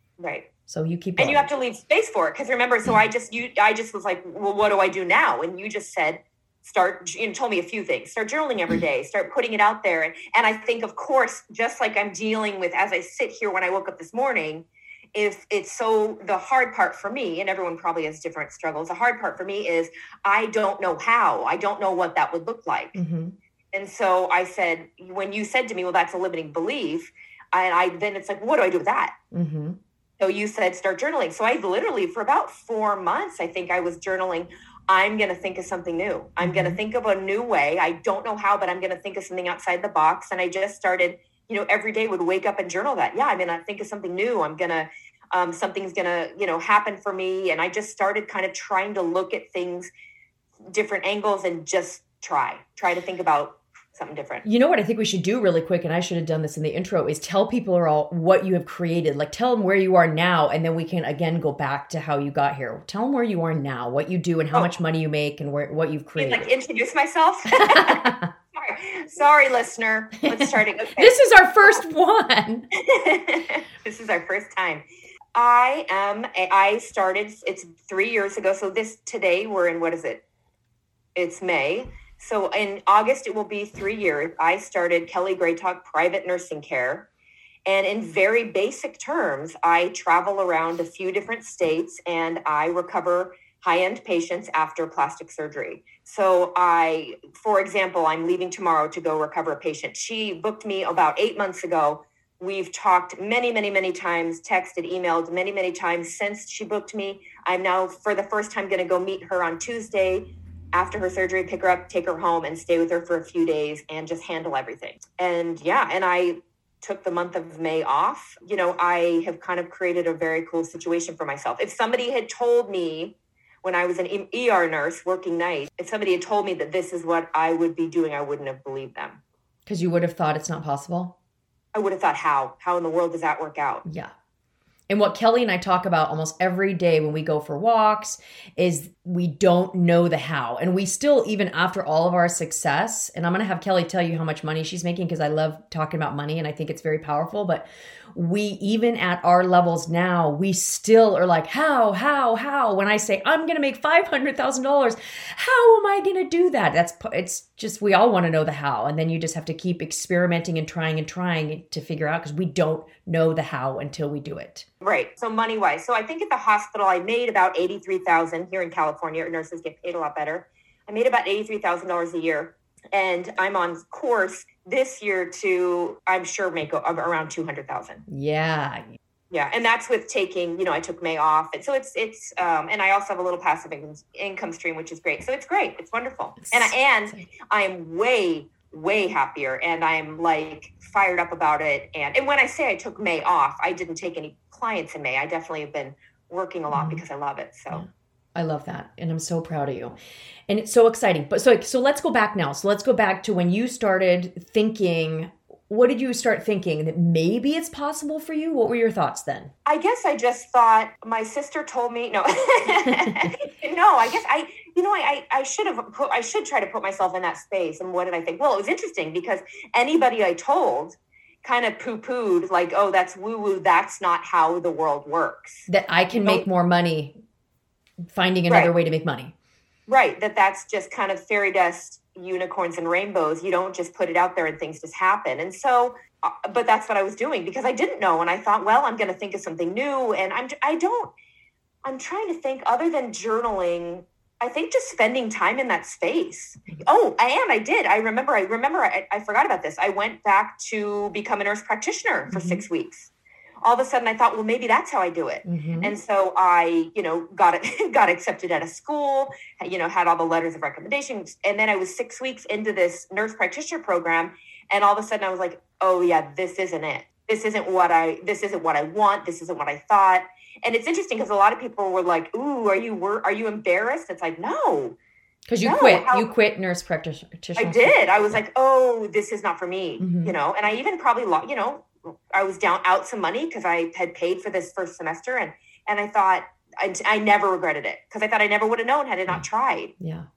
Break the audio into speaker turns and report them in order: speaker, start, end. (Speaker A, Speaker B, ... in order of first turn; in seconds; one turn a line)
Speaker A: 0.2-0.5
Speaker B: 0.7-1.5
Speaker A: 1.2-23.0
Speaker B: 22.9-23.4
Speaker A: 23.7-29.1
Speaker B: 29.3-29.8
Speaker A: 30.2-49.9
Speaker B: 36.4-36.8
Speaker A: 50.7-54.5
Speaker B: 54.4-66.5
Speaker A: 66.2-71.2
Speaker B: 67.5-68.3
Speaker B: 70.2-72.7
Speaker A: 72.8-74.8
Speaker A: 75.3-80.2
Speaker A: 81.2-87.1
Speaker A: 87.7-129.2
Speaker B: 129.7-131.1
Speaker A: 131.7-133.8
Speaker B: 133.8-134.1
Speaker B: 134.9-164.7
Speaker A: 164.8-178.0
Speaker B: 178.1-178.8
Speaker A: 179.3-197.8
Speaker B: 186.4-187.2
Speaker B: 196.7-197.0
Speaker B: 197.7-199.9
Speaker B: 200.5-209.5
Speaker A: 209.7-226.4
Speaker B: 212.9-213.2
Speaker B: 225.7-227.1
Speaker B: 228.1-229.3
Speaker A: 229.9-241.1
Speaker A: 241.8-253.1
Speaker B: 252.3-252.6
Speaker A: 253.6-275.0
Speaker B: 255.4-255.9
Speaker B: 275.5-278.4
Speaker A: 275.6-276.3
Speaker A: 277.6-289.9
Speaker B: 280.0-280.3
Speaker B: 290.0-290.3